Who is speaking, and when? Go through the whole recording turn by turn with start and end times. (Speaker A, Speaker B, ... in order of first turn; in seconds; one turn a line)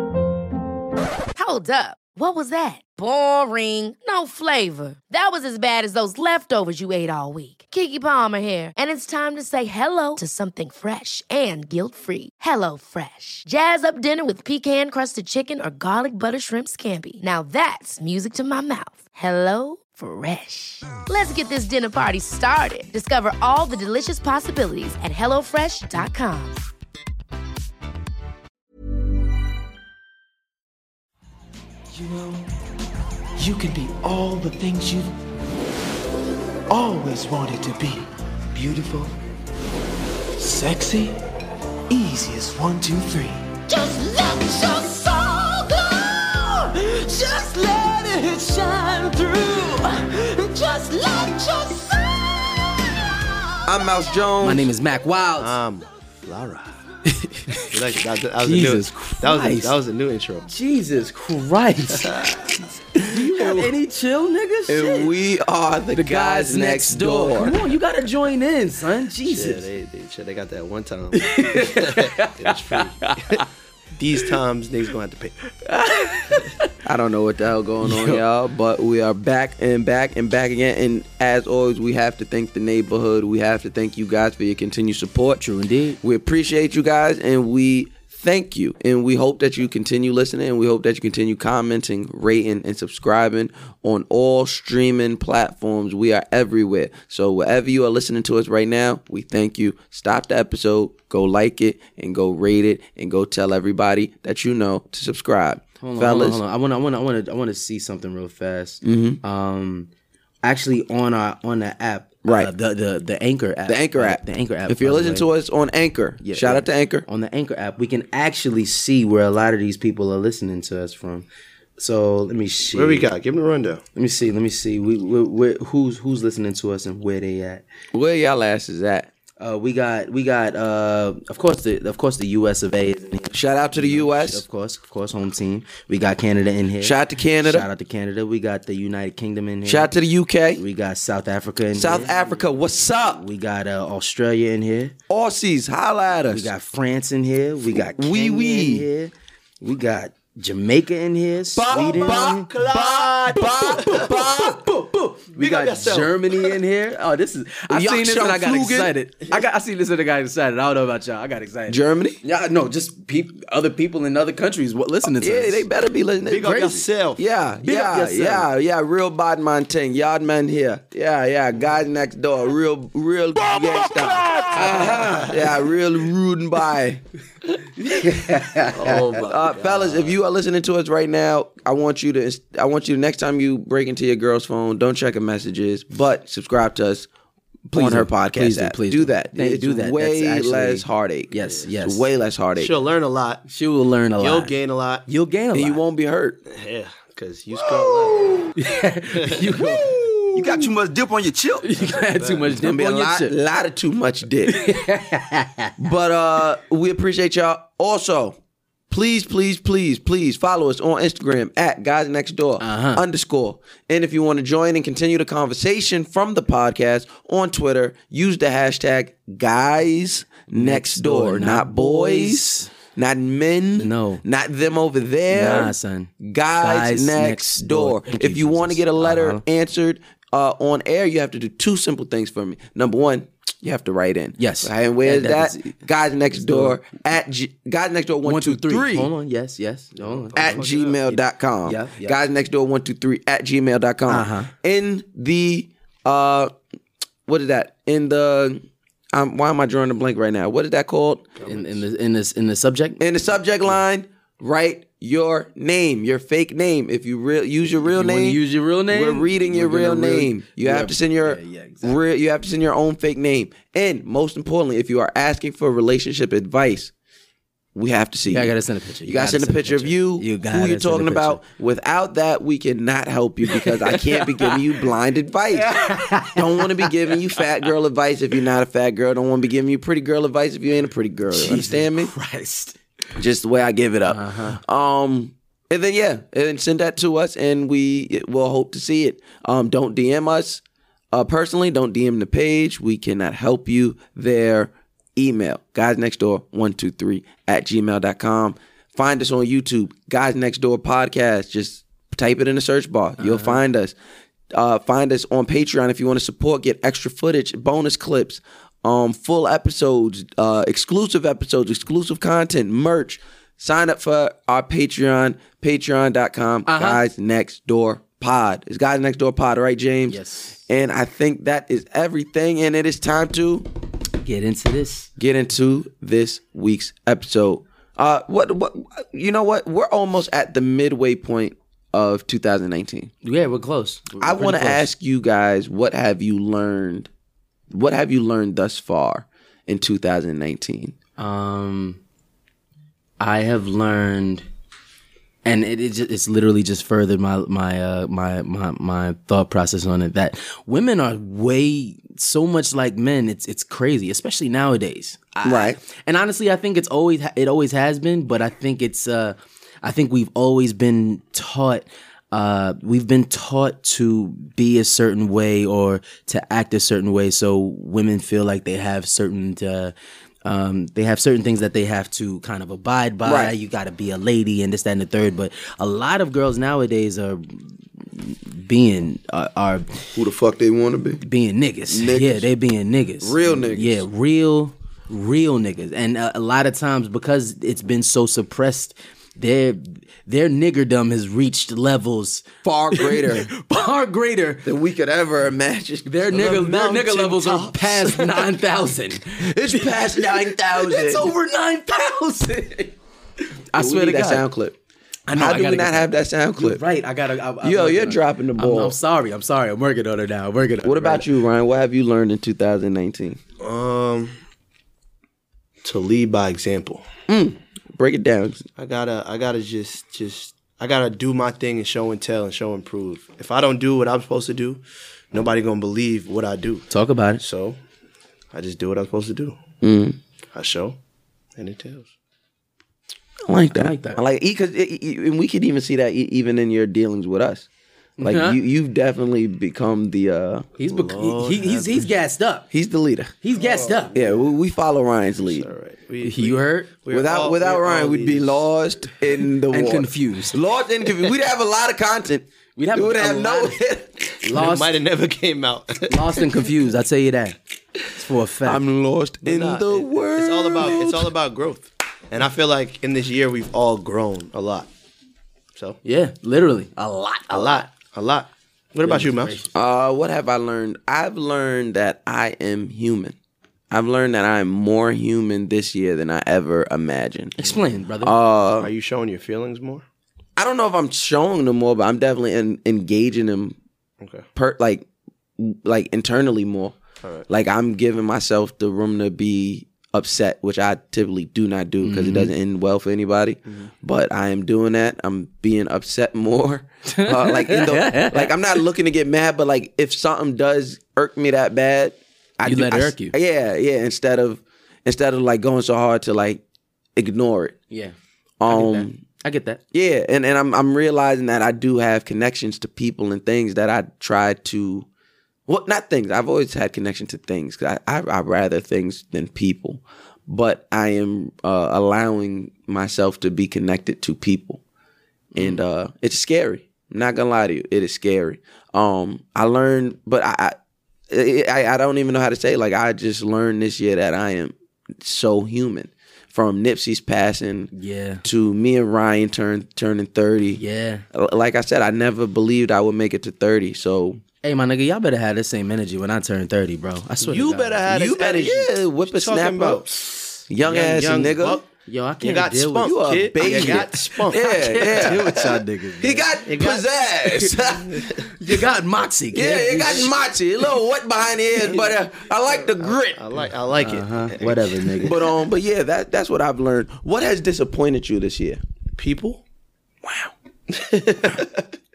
Speaker A: 1.4-26.6
Speaker B: 31.9-32.5
Speaker B: 33.4-35.1
Speaker B: 36.7-39.1
Speaker B: 40.4-41.2
Speaker B: 41.9-54.1
Speaker C: 53.7-54.7
Speaker D: 54.4-55.5
Speaker E: 55.4-56.8
Speaker D: 57.1-57.7
Speaker E: 57.7-60.5
Speaker D: 58.4-59.8
Speaker D: 60.5-62.3
Speaker E: 61.9-62.7
Speaker D: 63.0-65.1
Speaker C: 63.2-63.7
Speaker C: 64.7-67.5
Speaker D: 65.9-69.6
Speaker E: 69.3-73.4
Speaker D: 71.1-73.4
Speaker E: 73.9-75.3
Speaker D: 75.6-76.7
Speaker C: 76.8-85.4
Speaker D: 77.8-78.2
Speaker D: 85.4-86.0
Speaker C: 86.0-106.4
Speaker D: 105.8-109.9
Speaker C: 108.8-109.2
Speaker D: 110.4-115.3
Speaker C: 112.2-112.5
Speaker C: 113.7-117.0
Speaker D: 116.2-121.3
Speaker D: 121.8-123.1
Speaker E: 122.7-123.8
Speaker D: 123.9-127.7
Speaker C: 127.9-129.1
Speaker D: 129.4-139.9
Speaker C: 133.3-134.4
Speaker C: 136.8-137.7
Speaker C: 139.7-140.6
Speaker D: 140.6-144.9
Speaker C: 141.7-143.2
Speaker C: 145.1-146.5
Speaker D: 146.3-152.5
Speaker C: 147.9-148.9
Speaker C: 151.5-154.6
Speaker E: 151.6-154.2
Speaker D: 153.3-165.6
Speaker E: 155.3-156.2
Speaker C: 157.7-158.9
Speaker C: 161.7-162.2
Speaker C: 165.0-166.6
Speaker E: 166.3-167.2
Speaker D: 166.3-166.8
Speaker C: 167.2-177.0
Speaker D: 167.6-168.5
Speaker D: 177.8-179.2
Speaker E: 178.7-180.2
Speaker C: 179.2-187.1
Speaker C: 187.7-192.7
Speaker D: 187.7-192.1
Speaker E: 192.6-193.4
Speaker D: 193.5-194.5
Speaker E: 194.2-195.0
Speaker D: 195.1-195.8
Speaker C: 195.5-196.4
Speaker E: 196.5-198.6
Speaker D: 198.6-200.7
Speaker E: 199.2-199.8
Speaker C: 200.3-201.7
Speaker D: 201.6-203.3
Speaker E: 202.1-202.5
Speaker C: 202.4-204.8
Speaker D: 204.5-205.7
Speaker C: 205.8-208.4
Speaker C: 208.9-239.1
Speaker D: 212.6-213.0
Speaker D: 220.5-222.7
Speaker D: 223.8-224.2
Speaker D: 225.3-229.4
Speaker D: 234.4-235.8
Speaker D: 236.4-236.8
Speaker D: 238.2-242.2
Speaker E: 240.0-241.0
Speaker C: 240.3-246.5
Speaker D: 244.1-244.5
Speaker C: 247.3-251.3
Speaker E: 251.4-251.8
Speaker D: 251.4-253.0
Speaker C: 253.0-266.9
Speaker D: 257.9-262.0
Speaker C: 267.8-282.1
Speaker D: 268.3-271.4
Speaker D: 273.5-274.6
Speaker D: 275.6-277.1
Speaker D: 281.3-282.8
Speaker C: 283.1-303.9
Speaker D: 284.1-284.6
Speaker D: 303.2-303.6
Speaker C: 304.5-323.7
Speaker D: 316.7-317.0
Speaker D: 320.1-320.6
Speaker D: 324.2-325.1
Speaker C: 325.2-333.1
Speaker D: 333.2-334.9
Speaker C: 334.2-337.1
Speaker C: 337.7-340.9
Speaker D: 341.2-342.0
Speaker D: 343.2-344.4
Speaker D: 345.4-369.9
Speaker C: 355.4-355.8
Speaker D: 370.4-380.1
Speaker C: 373.2-373.6
Speaker C: 380.1-381.2
Speaker D: 381.2-394.6
Speaker C: 381.9-382.5
Speaker C: 383.2-384.1
Speaker C: 392.6-393.5
Speaker C: 394.6-396.6
Speaker D: 396.1-402.9
Speaker E: 396.3-398.4
Speaker C: 399.4-401.3
Speaker D: 403.7-404.5
Speaker C: 403.8-404.8
Speaker D: 405.3-411.3
Speaker C: 405.3-406.8
Speaker C: 407.6-408.9
Speaker C: 410.8-413.4
Speaker E: 413.6-414.4
Speaker E: 415.8-417.1
Speaker C: 417.3-418.6
Speaker E: 418.8-427.8
Speaker D: 426.9-427.4
Speaker E: 428.5-429.6
Speaker C: 429.8-430.2
Speaker E: 430.5-431.0
Speaker E: 431.6-432.1
Speaker C: 433.4-437.7
Speaker D: 433.7-434.2
Speaker D: 438.2-438.6
Speaker C: 438.2-440.7
Speaker D: 440.8-442.7
Speaker E: 440.8-442.1
Speaker C: 442.7-443.3
Speaker D: 443.4-444.1
Speaker E: 443.5-444.4
Speaker C: 444.1-445.7
Speaker E: 445.4-448.7
Speaker D: 446.2-446.9
Speaker C: 447.1-454.6
Speaker D: 449.7-450.6
Speaker D: 452.8-453.8
Speaker D: 454.5-455.0
Speaker E: 454.5-456.5
Speaker D: 456.1-457.6
Speaker D: 458.1-458.8
Speaker C: 458.6-461.3
Speaker E: 459.4-464.9
Speaker D: 466.0-467.9
Speaker E: 467.5-469.6
Speaker D: 469.0-469.7
Speaker C: 469.7-473.3
Speaker C: 473.9-477.6
Speaker D: 477.6-478.3
Speaker C: 478.2-478.9
Speaker E: 478.8-480.0
Speaker C: 480.6-483.8
Speaker E: 484.2-484.5
Speaker C: 484.6-486.9
Speaker C: 487.5-506.6
Speaker D: 492.0-492.5
Speaker D: 497.1-498.6
Speaker D: 502.6-503.3
Speaker C: 507.2-507.8
Speaker C: 508.6-509.2
Speaker D: 508.7-509.8
Speaker C: 509.9-515.1
Speaker C: 515.7-524.8
Speaker D: 525.5-525.8
Speaker C: 525.6-530.8
Speaker C: 531.3-537.9
Speaker D: 537.9-538.4
Speaker C: 538.4-540.8
Speaker D: 540.8-541.2
Speaker C: 541.3-544.4
Speaker D: 544.6-548.0
Speaker E: 547.4-551.9
Speaker C: 548.1-551.8
Speaker D: 552.1-556.5
Speaker E: 552.4-555.3
Speaker C: 553.0-558.4
Speaker E: 556.6-558.4
Speaker D: 558.6-560.9
Speaker C: 559.5-563.4
Speaker E: 561.8-565.4
Speaker D: 564.0-565.4
Speaker C: 565.2-568.8
Speaker E: 569.2-569.6
Speaker E: 570.9-571.9